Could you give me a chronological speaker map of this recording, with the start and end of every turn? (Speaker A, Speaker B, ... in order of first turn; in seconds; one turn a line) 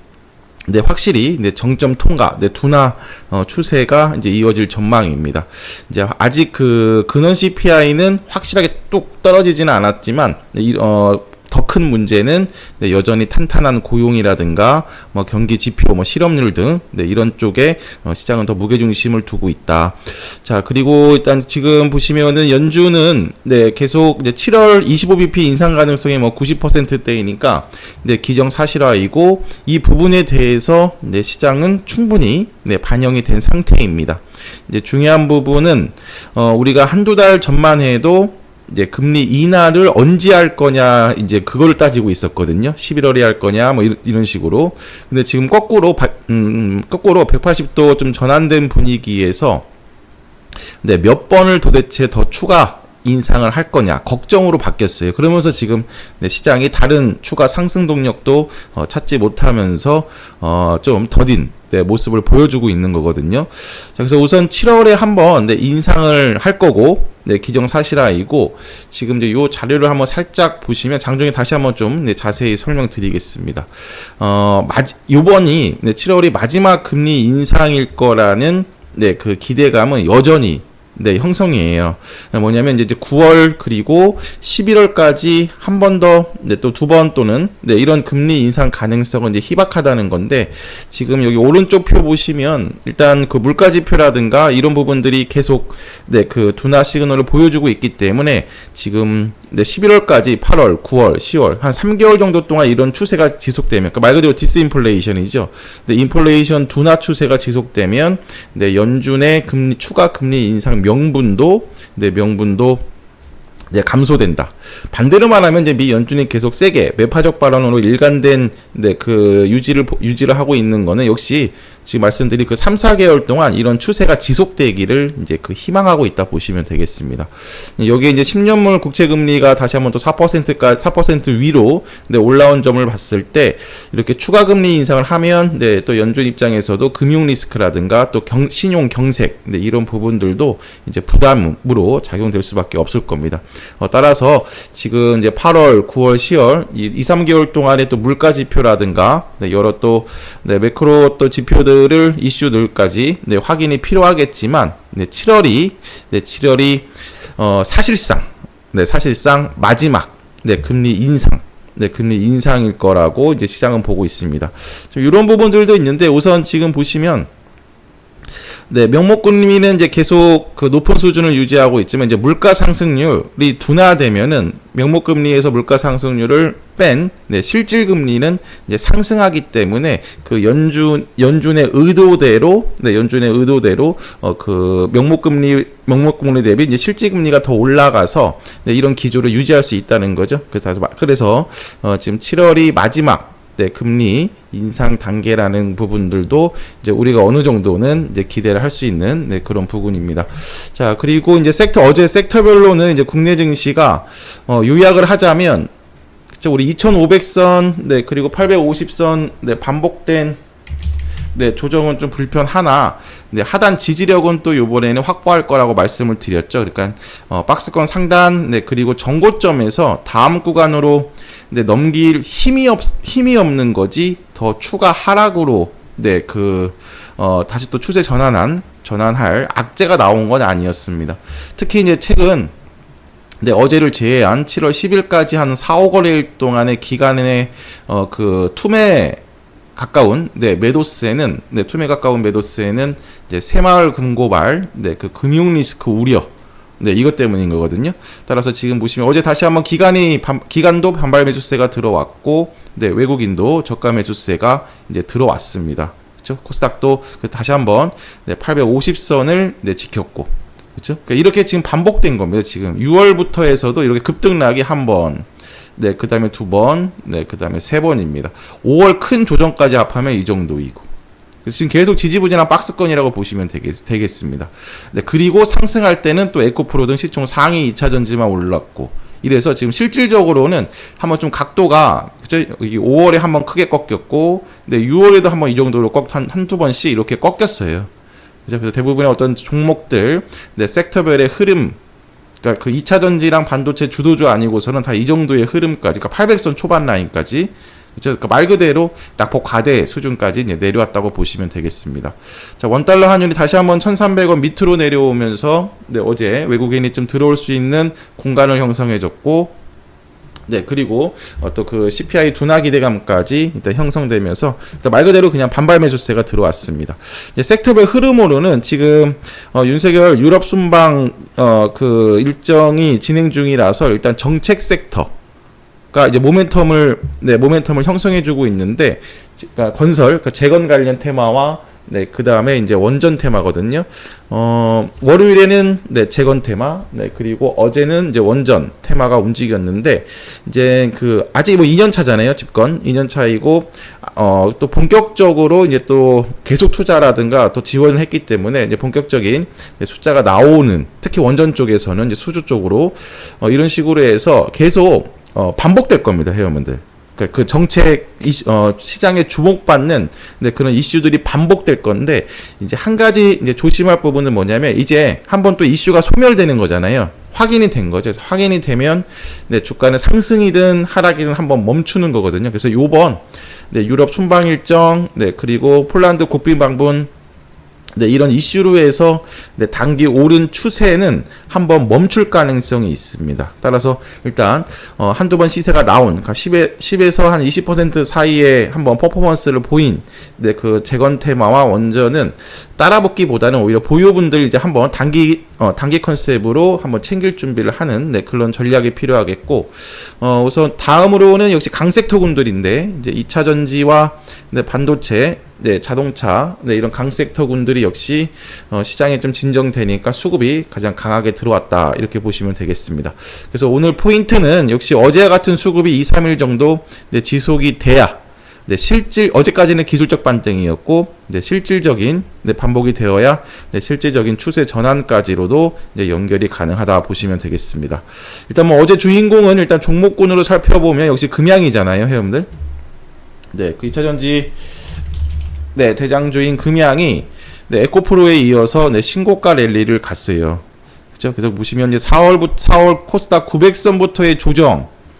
Speaker A: 0.7-49.6
Speaker A: 50.8-112.8
Speaker A: 113.7-167.3
Speaker A: 168.7-205.7
Speaker A: 206.4-210.4
Speaker A: 211.3-232.5
Speaker A: 233.4-239.2
Speaker A: 239.7-270.9
Speaker A: 271.4-287.9
Speaker A: 288.4-291.8
Speaker A: 292.4-309.5
Speaker A: 310.5-325.1
Speaker A: 325.9-377.1
Speaker A: 377.9-432.5
Speaker A: 433.5-434.5
Speaker A: 435.7-440.6
Speaker A: 441.1-444.9